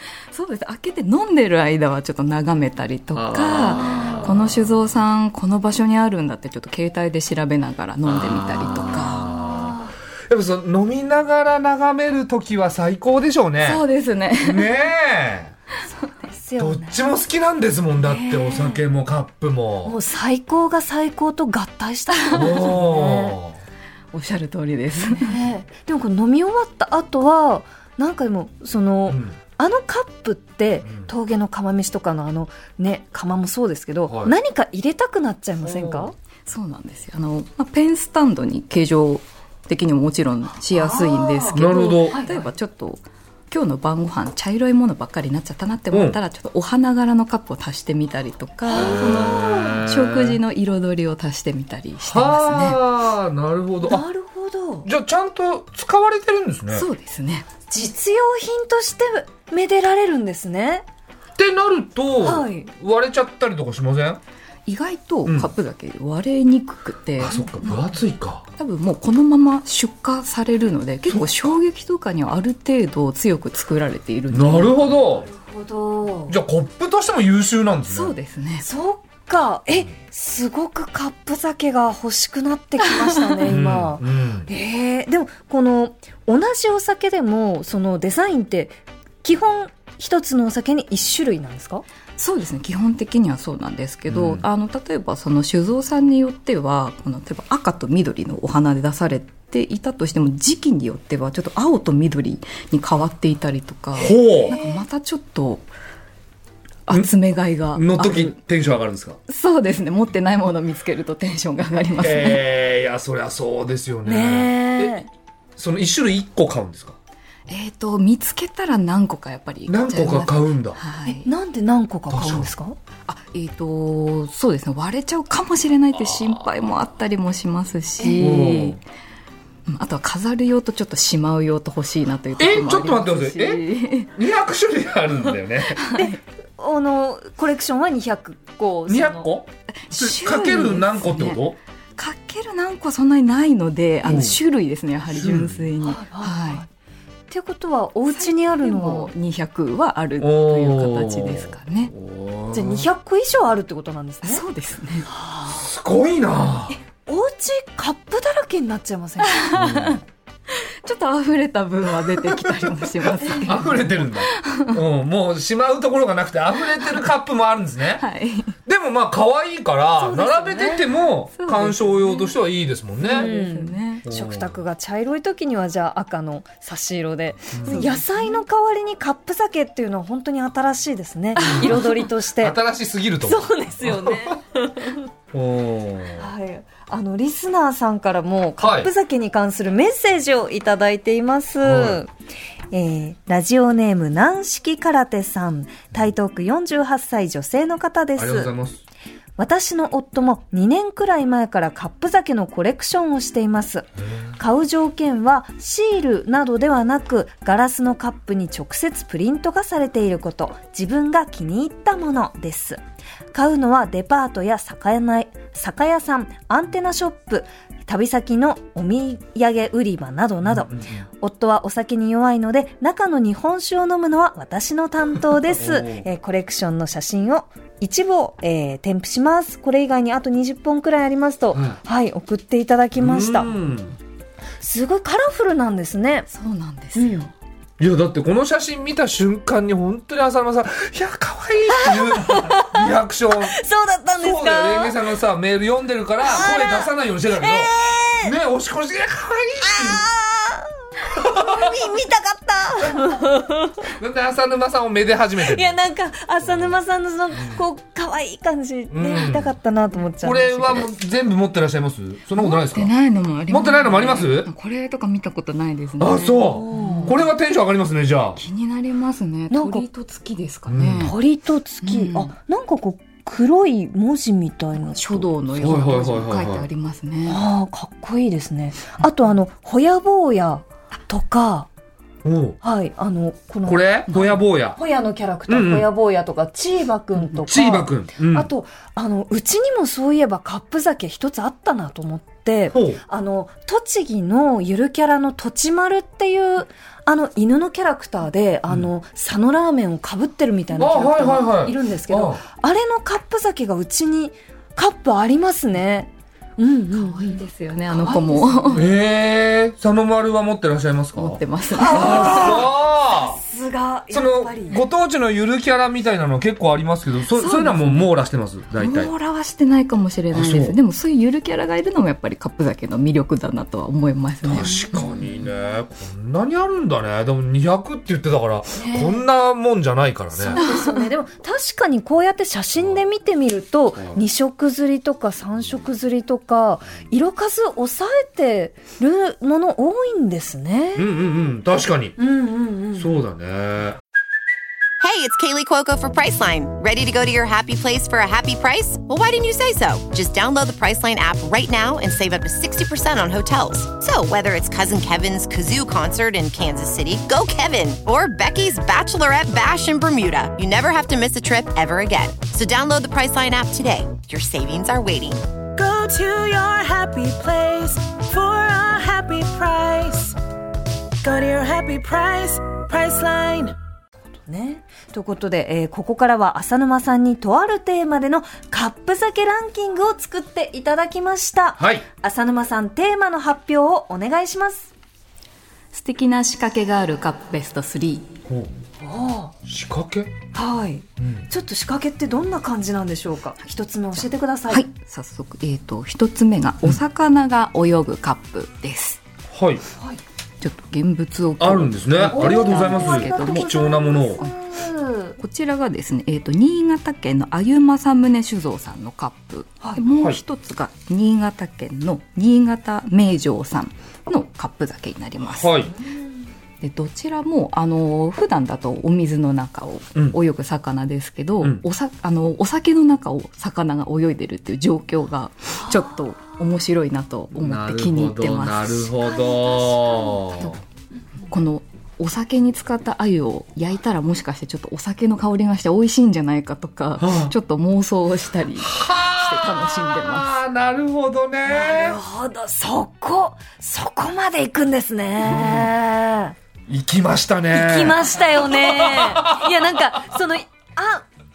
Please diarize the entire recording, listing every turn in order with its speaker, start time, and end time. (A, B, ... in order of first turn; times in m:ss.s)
0:00.3-0:09.3 A
0:03.1-0:04.5 B
0:03.9-0:04.2 C
0:08.0-0:09.8 B
0:09.4-0:09.9 C
0:10.3-0:13.8 B
0:13.6-0:14.7 A
0:14.4-0:15.5 B
0:16.3-0:17.0 C
0:16.6-0:20.0 B
0:18.0-0:18.8 C
0:19.8-0:23.4 C
0:22.3-0:23.6 B
0:24.1-0:25.3 A
0:25.1-0:36.1 C
0:29.1-0:29.4 B
0:30.8-0:31.1 B
0:34.1-0:34.3 B
0:35.6-0:36.1 B
0:36.4-0:52.8 A
0:40.7-0:41.5 C
0:41.5-0:42.2 B
0:42.1-0:42.4 C
0:45.9-0:46.2 B
0:48.6-0:49.8 C
0:48.7-0:50.4 B
0:52.0-0:54.0 B
0:53.8-0:54.9 C
0:54.8-0:56.9 B
0:56.7-0:57.4 A
0:57.7-1:00.8 C
1:01.4-1:04.2 B
1:02.2-1:02.7 C
1:04.6-1:07.7 A
1:07.2-1:08.4 B
1:08.5-1:15.0 A
1:14.3-1:15.3 B
1:15.2-1:16.4 C
1:16.3-1:18.1 B
1:17.9-1:18.6 A
1:18.6-1:31.8 C
1:23.4-1:24.5 B
1:32.2-1:45.7 A
1:34.1-1:34.4 B
1:43.9-1:44.6 B
1:44.5-1:44.8 C
1:46.9-1:48.4 A
1:47.7-1:49.2 B
1:49.3-1:52.4 A
1:52.0-1:55.0 B
1:54.0-1:55.1 C
1:55.6-1:57.0 B
1:57.5-2:01.3 A
1:59.7-2:00.8 B
2:01.0-2:02.8 C
2:02.1-2:02.5 B
2:03.1-2:08.8 A
2:08.0-2:08.3 C
2:08.2-2:08.8 B
2:09.7-2:14.1 A
2:12.4-2:15.8 B
2:15.8-2:16.2 A
2:15.9-2:19.3 C
2:18.8-2:21.6 B
2:19.7-2:21.4 A
2:22.0-2:26.6 A
2:24.0-2:24.4 B
2:25.1-2:25.6 B
2:25.8-2:26.7 C
2:27.3-2:29.1 C
2:28.1-2:31.9 A
2:30.2-2:32.9 B
2:32.5-2:34.4 C
2:34.2-2:35.1 A
2:35.1-2:35.6 C
2:35.5-2:36.8 B
2:36.7-2:39.5 C
2:39.3-2:44.8 A
2:39.5-2:40.0 B
2:42.0-2:48.0 B
2:43.2-2:43.9 C
2:48.0-2:48.6 A
2:48.6-2:53.3 B
2:50.0-2:50.9 C
2:51.3-2:52.3 A
2:53.0-2:54.0 A
2:53.0-3:02.6 C
2:54.0-2:54.6 B
2:57.5-2:57.8 B
2:57.7-2:58.4 A
3:01.4-3:04.4 B
3:03.2-3:05.0 C
3:05.3-3:06.3 B
3:06.2-3:12.1 C
3:08.6-3:08.9 B
3:11.6-3:12.0 B
3:12.7-3:18.5 C
3:18.2-3:18.8 B
3:19.4-3:23.9 C
3:24.0-3:24.4 B
3:24.4-3:32.8 C
3:33.3-3:53.5 C
3:40.4-3:41.0 B
3:45.4-3:46.1 B
3:51.5-3:51.8 B
3:53.0-3:54.0 B
3:54.6-3:56.3 C
3:56.3-3:57.3 A
3:57.0-3:57.3 C
3:57.8-4:03.6 B
4:01.8-4:02.8 C
4:03.4-4:05.0 C
4:04.2-4:10.0 B
4:06.2-4:08.3 C
4:09.6-4:13.9 C
4:11.1-4:11.8 B
4:14.0-4:15.7 B
4:15.4-4:20.9 C
4:16.4-4:16.8 B
4:17.4-4:17.6 B
4:18.9-4:19.5 B
4:20.2-4:22.9 B
4:22.4-4:27.2 A
4:23.5-4:24.5 B
4:26.0-4:28.4 B
4:26.5-4:27.2 C
4:28.4-4:31.2 A
4:29.5-4:29.9 C
4:30.7-4:31.1 B
4:31.0-4:35.3 C
4:31.8-4:32.3 A
4:34.8-4:37.4 A
4:35.5-4:36.7 B
4:37.2-4:41.7 C
4:42.2-4:42.6 B
4:42.6-4:44.2 C
4:43.6-4:44.8 B
4:44.1-4:44.4 A
4:44.8-5:08.9 C
4:45.5-4:45.9 B
4:47.4-4:48.5 B
4:52.7-4:53.0 B
5:00.8-5:02.4 B
5:06.9-5:08.9 A
5:08.7-5:13.4 B
5:11.1-5:12.6 A
5:11.7-5:14.8 C
5:14.1-5:19.1 B
5:17.4-5:18.1 A
5:18.8-5:24.8 A
5:20.3-5:20.8 B
5:24.4-5:30.6 B
5:24.6-5:25.1 C
5:28.8-5:29.2 C
5:30.3-5:41.1 C
5:30.6-5:31.0 A
5:32.8-5:33.0 B
5:41.0-5:42.2 B
5:42.2-5:43.1 C
5:42.9-5:44.0 B
5:45.0-6:05.4 D
6:05.8-6:10.4 E
6:11.2-6:13.7 E
6:14.4-6:24.9 C
6:21.8-6:22.0 B
6:25.9-6:28.3 A
6:28.5-6:28.7 B
6:29.0-6:29.5 C
6:29.6-6:30.3 B
6:30.5-6:34.8 C
6:31.2-6:31.5 B
6:34.7-6:39.2 A
6:39.5-6:39.8 B
6:40.6-6:43.8 A
6:41.6-6:44.4 B
6:42.3-6:45.4 C
6:45.4-6:55.8 A
6:50.1-6:50.4 B
6:55.4-6:56.0 B
6:56.8-7:09.1 A
7:05.8-7:06.2 C
7:07.5-7:10.8 B
7:09.2-7:10.6 C
7:11.5-7:20.6 A
7:17.2-7:17.5 B
7:18.8-7:22.2 B
7:21.6-7:26.5 C
7:25.4-7:25.8 B
7:26.9-7:29.7 B
7:27.7-7:31.2 C